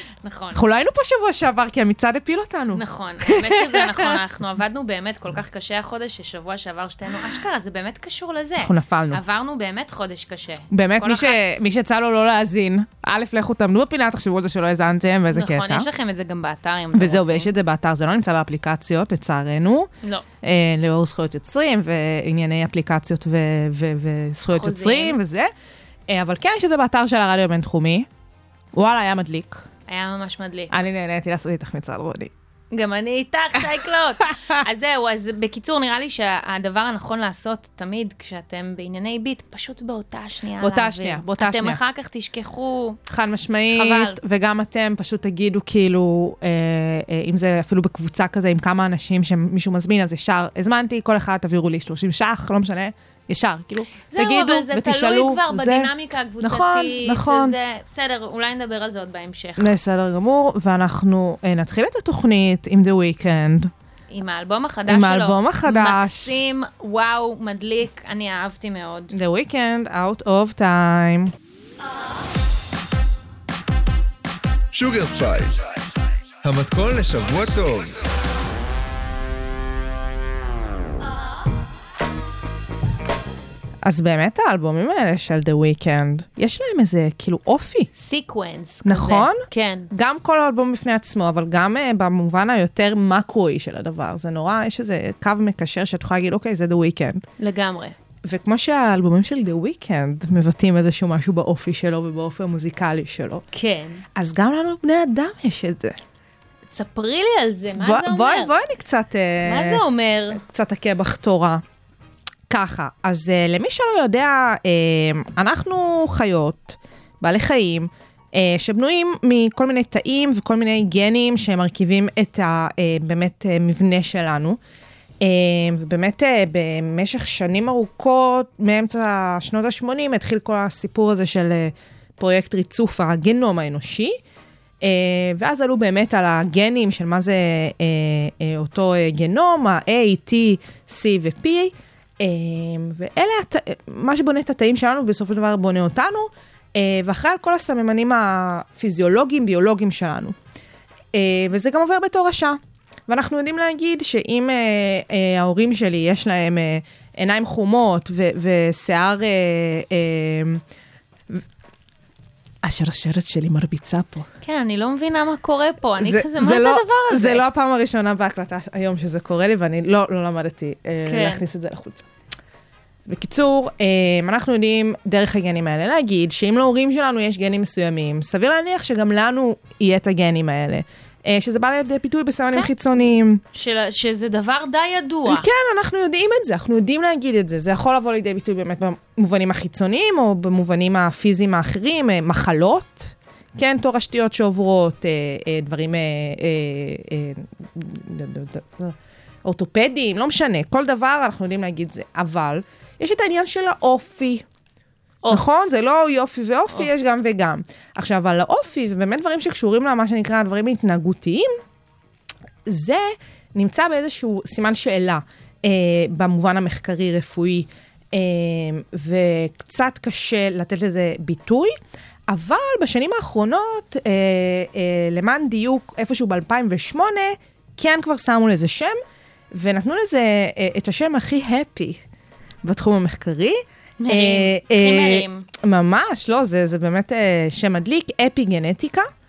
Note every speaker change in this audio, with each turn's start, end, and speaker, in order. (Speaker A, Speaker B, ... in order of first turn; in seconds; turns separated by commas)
Speaker A: 0.2-0.6, Speaker B: 0.5-4.2, Speaker A: 2.7-11.4, Speaker B: 8.6-9.2, Speaker B: 10.7-15.9, Speaker A: 15.3-17.5, Speaker B: 16.9-19.9, Speaker B: 20.4-25.5, Speaker A: 24.5-25.2, Speaker B: 26.1-28.1, Speaker B: 28.7-29.6, Speaker A: 29.9-30.7, Speaker B: 30.7-32.3, Speaker A: 32.7-43.0, Speaker B: 40.6-41.8, Speaker B: 43.1-57.5, Speaker A: 43.7-44.2, Speaker A: 54.1-59.8, Speaker B: 59.6-63.7, Speaker A: 64.1-69.1, Speaker B: 64.9-66.4, Speaker B: 69.1-71.3, Speaker C: 74.7-75.7, Speaker C: 76.4-78.0, Speaker B: 83.8-87.9, Speaker A: 87.9-89.9, Speaker B: 88.8-97.2, Speaker A: 97.4-98.0, Speaker B: 98.2-103.4, Speaker A: 103.5-104.0, Speaker B: 104.1-106.0, Speaker A: 106.7-108.5, Speaker B: 107.8-111.6, Speaker A: 109.4-110.4, Speaker B: 112.5-124.6, Speaker B: 125.2-134.2, Speaker B: 134.8-150.4, Speaker B: 151.1-160.6, Speaker B: 162.6-164.3, Speaker A: 164.4-167.4, Speaker B: 166.0-172.1, Speaker A: 171.0-171.4, Speaker B: 173.1-183.4, Speaker A: 183.5-185.5, Speaker B: 185.2-204.4, Speaker B: 205.3-211.5, Speaker B: 212.7-221.7, Speaker B: 222.3-229.0, Speaker B: 229.5-232.0, Speaker B: 232.6-239.1, Speaker A: 234.0-235.5